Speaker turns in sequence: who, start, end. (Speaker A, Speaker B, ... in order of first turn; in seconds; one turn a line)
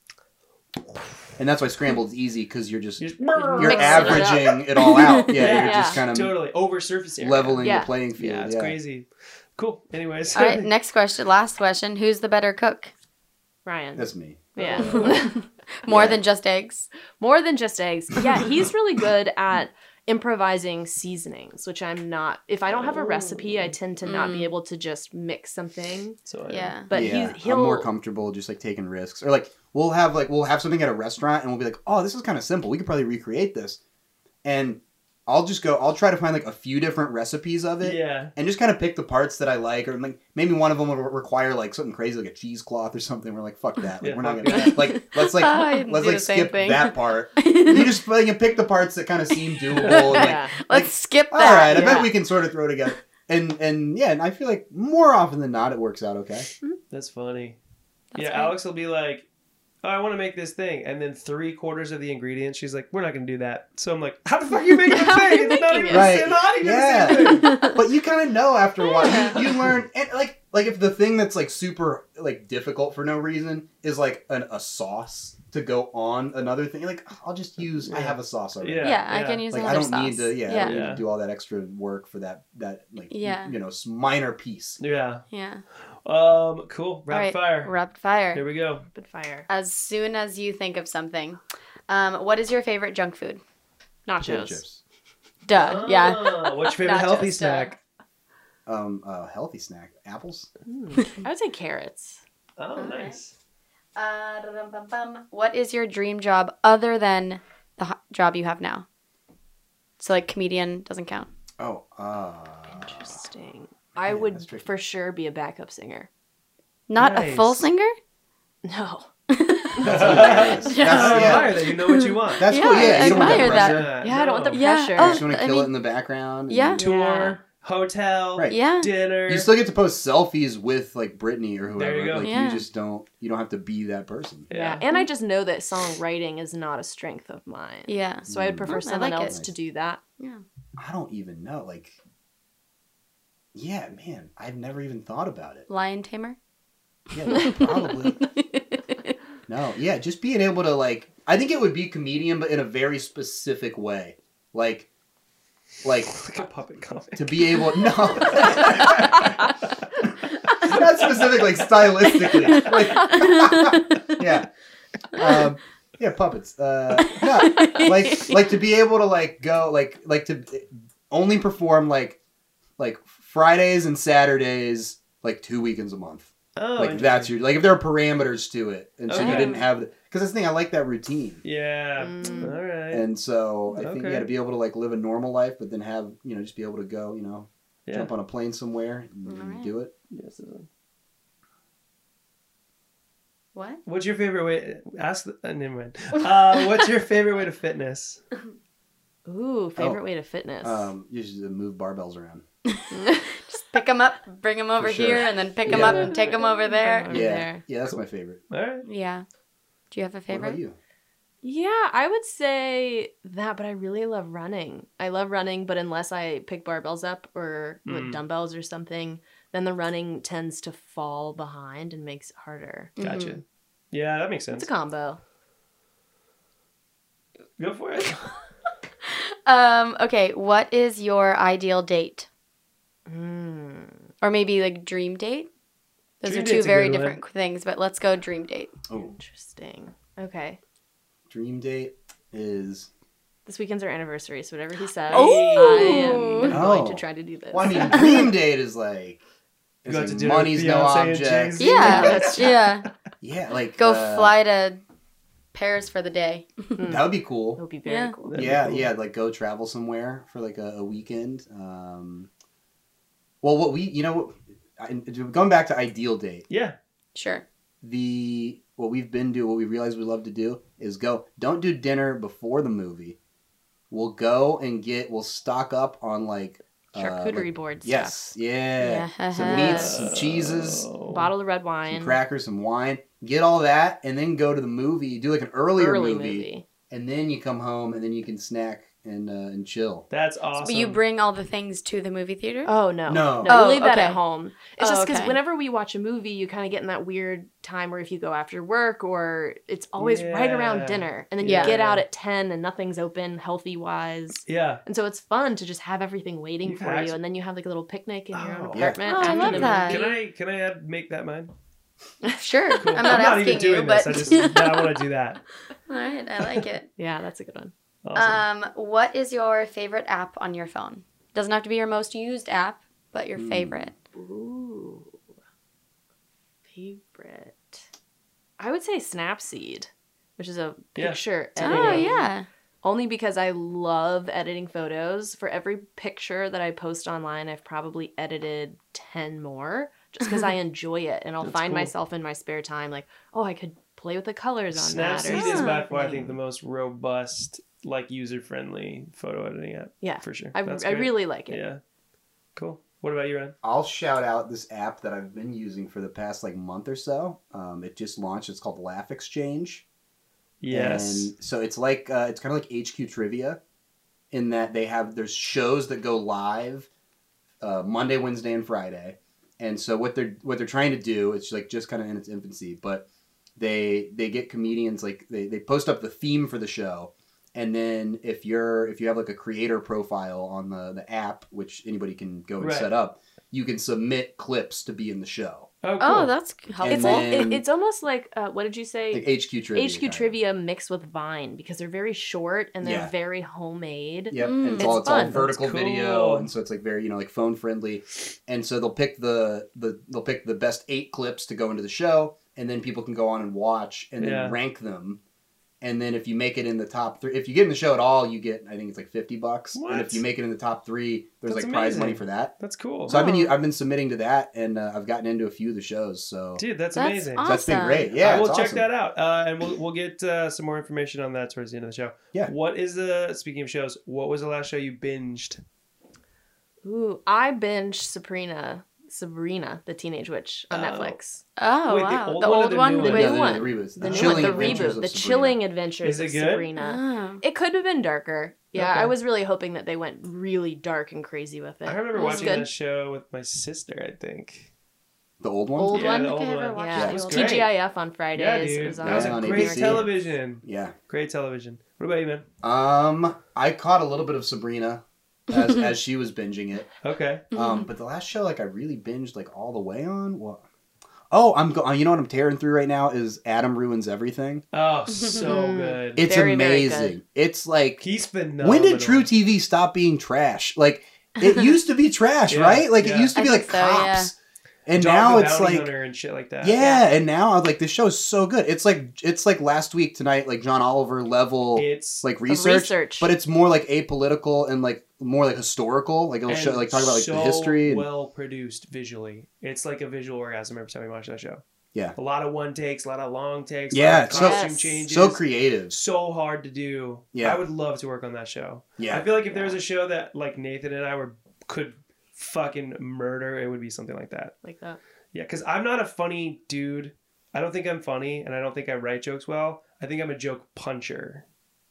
Speaker A: 1.4-6.4
Speaker B: 3.0-4.4
Speaker C: 3.4-4.5
Speaker D: 4.8-5.3
Speaker B: 5.3-10.7
Speaker C: 5.4-6.0
Speaker A: 7.2-8.8
Speaker C: 7.6-7.9
Speaker D: 10.3-12.9
Speaker C: 13.7-15.4
Speaker A: 14.0-15.1
Speaker B: 14.6-15.1
Speaker D: 14.7-16.9
Speaker A: 15.9-16.2
Speaker C: 17.2-26.2
Speaker B: 22.7-23.7
Speaker D: 24.1-24.5
Speaker B: 26.3-26.8
Speaker D: 26.5-26.9
Speaker C: 26.9-27.9
Speaker A: 26.9-33.8
Speaker A: 34.4-56.5
Speaker B: 37.8-38.3
Speaker B: 44.0-45.0
Speaker D: 44.6-48.0
Speaker D: 49.6-52.1
Speaker B: 49.8-50.1
Speaker C: 50.1-50.5
Speaker C: 51.7-52.1
Speaker B: 56.9-57.6
Speaker D: 58.1-58.5
Speaker B: 58.1-59.3
Speaker B: 59.8-67.7
Speaker C: 64.7-66.2
Speaker A: 65.9-84.8
Speaker D: 67.3-67.8
Speaker D: 69.0-69.4
Speaker B: 69.1-69.5
Speaker B: 77.9-79.8
Speaker D: 78.8-80.8
Speaker B: 80.5-81.1
Speaker D: 83.1-83.6
Speaker B: 84.8-85.3
Speaker D: 85.3-85.6
Speaker B: 86.0-87.8
Speaker D: 87.1-88.4
Speaker B: 88.3-88.9
Speaker C: 88.9-89.5
Speaker D: 89.5-93.4
Speaker C: 94.1-94.6
Speaker A: 94.2-94.8
Speaker D: 95.5-97.8
Speaker B: 95.5-97.8
Speaker A: 98.7-100.5
Speaker C: 100.7-102.2
Speaker B: 102.6-103.3
Speaker D: 102.8-103.2
Speaker D: 104.0-108.9
Speaker D: 110.0-111.3
Speaker A: 111.6-113.2
Speaker C: 112.7-116.1
Speaker A: 114.0-114.7
Speaker D: 116.9-118.0
Speaker B: 117.0-117.7
Speaker C: 118.6-119.1
Speaker D: 119.3-123.9
Speaker B: 119.8-124.7
Speaker A: 119.8-121.5
Speaker C: 120.1-120.7
Speaker A: 122.4-123.9
Speaker C: 122.6-125.2
Speaker D: 124.5-125.7
Speaker A: 124.9-126.8
Speaker D: 126.5-126.8
Speaker C: 126.8-127.4
Speaker B: 126.8-129.5
Speaker D: 128.5-128.9
Speaker A: 129.3-134.5
Speaker B: 131.7-132.3
Speaker D: 132.2-132.7
Speaker B: 134.5-134.8
Speaker C: 134.5-140.0
Speaker D: 137.9-139.4
Speaker A: 138.3-139.5
Speaker A: 140.8-142.0
Speaker A: 143.5-145.7
Speaker D: 145.7-146.4
Speaker A: 147.1-148.2
Speaker D: 147.3-149.2
Speaker A: 149.5-154.9
Speaker A: 155.8-156.2
Speaker B: 156.1-159.3
Speaker A: 157.2-164.5
Speaker B: 160.7-162.7
Speaker D: 162.2-164.0
Speaker A: 165.1-172.2
Speaker D: 167.2-168.4
Speaker A: 172.8-181.4
Speaker B: 176.6-177.4
Speaker B: 179.1-179.6
Speaker D: 179.2-179.7
Speaker B: 181.4-183.1
Speaker C: 182.0-182.6
Speaker A: 182.9-189.9
Speaker B: 183.8-184.3
Speaker B: 187.9-188.1
Speaker D: 189.3-189.7
Speaker B: 190.1-190.7
Speaker D: 193.6-193.8
Speaker B: 193.9-198.2
Speaker C: 199.3-200.9
Speaker A: 200.6-202.4
Speaker D: 202.7-207.2
Speaker C: 202.9-203.3
Speaker A: 204.8-206.1
Speaker C: 205.6-207.7
Speaker A: 207.1-208.4
Speaker B: 208.5-208.9
Speaker D: 208.8-209.3
Speaker D: 209.9-210.6
Speaker A: 210.3-210.8
Speaker C: 211.4-222.9
Speaker B: 217.9-218.2
Speaker D: 223.0-223.4
Speaker B: 223.0-224.7
Speaker C: 224.5-225.2
Speaker B: 227.6-228.4
Speaker D: 229.1-232.3
Speaker C: 233.1-234.1
Speaker D: 234.2-235.5
Speaker D: 236.2-238.8
Speaker B: 236.2-237.2
Speaker C: 238.9-240.6
Speaker A: 241.3-242.9
Speaker C: 243.5-248.1
Speaker B: 245.1-246.2
Speaker D: 245.1-246.6
Speaker A: 246.4-249.2
Speaker D: 247.9-248.3
Speaker A: 249.8-252.3
Speaker B: 249.9-252.7
Speaker D: 251.6-252.9
Speaker C: 251.7-252.6
Speaker A: 253.2-254.3
Speaker D: 253.8-254.8
Speaker D: 255.5-256.8
Speaker C: 256.8-258.6
Speaker A: 256.9-257.6
Speaker D: 257.9-258.2
Speaker B: 258.3-258.9
Speaker A: 258.3-262.3
Speaker A: 263.4-266.5
Speaker B: 266.5-266.8
Speaker D: 267.1-267.4
Speaker A: 267.8-273.2
Speaker A: 273.9-280.9
Speaker C: 276.9-278.4
Speaker D: 278.8-280.0
Speaker C: 279.4-279.9
Speaker B: 279.5-281.3
Speaker C: 281.1-282.2
Speaker A: 281.9-290.1
Speaker C: 285.8-286.6
Speaker B: 290.1-291.0
Speaker D: 290.6-292.7
Speaker C: 292.6-310.1
Speaker A: 293.1-293.6
Speaker D: 293.4-294.2
Speaker D: 294.8-295.4
Speaker B: 300.0-302.1
Speaker D: 301.4-301.8
Speaker B: 304.5-304.8
Speaker B: 306.6-307.2
Speaker B: 308.3-311.5
Speaker A: 308.7-309.0
Speaker D: 309.1-310.1
Speaker D: 312.4-315.0
Speaker B: 312.8-315.4
Speaker D: 315.9-316.9
Speaker C: 317.0-317.7
Speaker B: 318.1-318.4
Speaker D: 318.2-323.9
Speaker A: 323.4-323.9
Speaker C: 324.1-325.2
Speaker C: 326.7-327.8
Speaker C: 328.6-346.4
Speaker B: 331.0-332.1
Speaker D: 331.6-332.5
Speaker B: 341.4-341.9
Speaker B: 344.7-351.8
Speaker D: 345.3-345.8
Speaker C: 350.0-351.6
Speaker B: 352.6-353.6
Speaker A: 353.6-359.8
Speaker B: 360.6-361.3
Speaker A: 360.7-363.6
Speaker A: 364.3-366.9
Speaker A: 367.6-373.0
Speaker A: 373.6-385.7
Speaker B: 382.6-382.9
Speaker B: 385.8-386.3
Speaker D: 386.0-387.4
Speaker A: 386.8-387.6
Speaker C: 386.8-395.5
Speaker A: 389.1-390.4
Speaker A: 392.8-393.1
Speaker A: 394.3-405.2
Speaker D: 394.3-395.0
Speaker B: 395.3-396.5
Speaker B: 404.2-404.6
Speaker A: 405.8-412.5
Speaker B: 409.7-410.2
Speaker B: 411.4-413.2
Speaker A: 413.1-416.6
Speaker D: 413.1-413.5
Speaker B: 416.6-417.6
Speaker D: 416.9-418.2
Speaker A: 417.4-418.9
Speaker B: 418.1-425.6
Speaker C: 426.8-431.4
Speaker B: 430.7-431.2
Speaker D: 431.6-433.5
Speaker B: 431.9-433.4
Speaker A: 433.0-435.6
Speaker C: 433.0-442.7
Speaker B: 434.0-434.9
Speaker B: 436.0-436.7
Speaker D: 436.8-437.4
Speaker B: 438.7-439.2
Speaker B: 441.9-444.7
Speaker D: 442.1-442.6
Speaker A: 445.4-446.0
Speaker C: 445.8-450.2
Speaker D: 445.8-447.7
Speaker B: 445.9-447.7
Speaker B: 448.3-452.5
Speaker A: 449.0-450.1
Speaker A: 450.6-450.9
Speaker A: 452.6-456.9
Speaker B: 457.0-457.4
Speaker A: 457.5-460.6
Speaker D: 457.5-457.9
Speaker A: 461.3-464.6
Speaker B: 464.7-466.2
Speaker D: 465.1-465.8
Speaker C: 465.4-467.2
Speaker A: 466.1-468.1
Speaker B: 468.0-469.3
Speaker A: 468.6-474.3
Speaker B: 472.5-473.4
Speaker D: 473.4-474.3
Speaker A: 474.9-475.9
Speaker B: 474.9-476.8
Speaker A: 476.6-488.1
Speaker C: 476.8-477.1
Speaker B: 481.8-482.3
Speaker C: 482.5-483.3
Speaker B: 486.5-491.6
Speaker B: 492.1-504.5
Speaker A: 493.9-496.0
Speaker C: 494.3-495.0
Speaker A: 497.3-497.6
Speaker A: 499.0-499.3
Speaker C: 499.5-499.8
Speaker C: 504.6-505.0
Speaker B: 505.3-511.4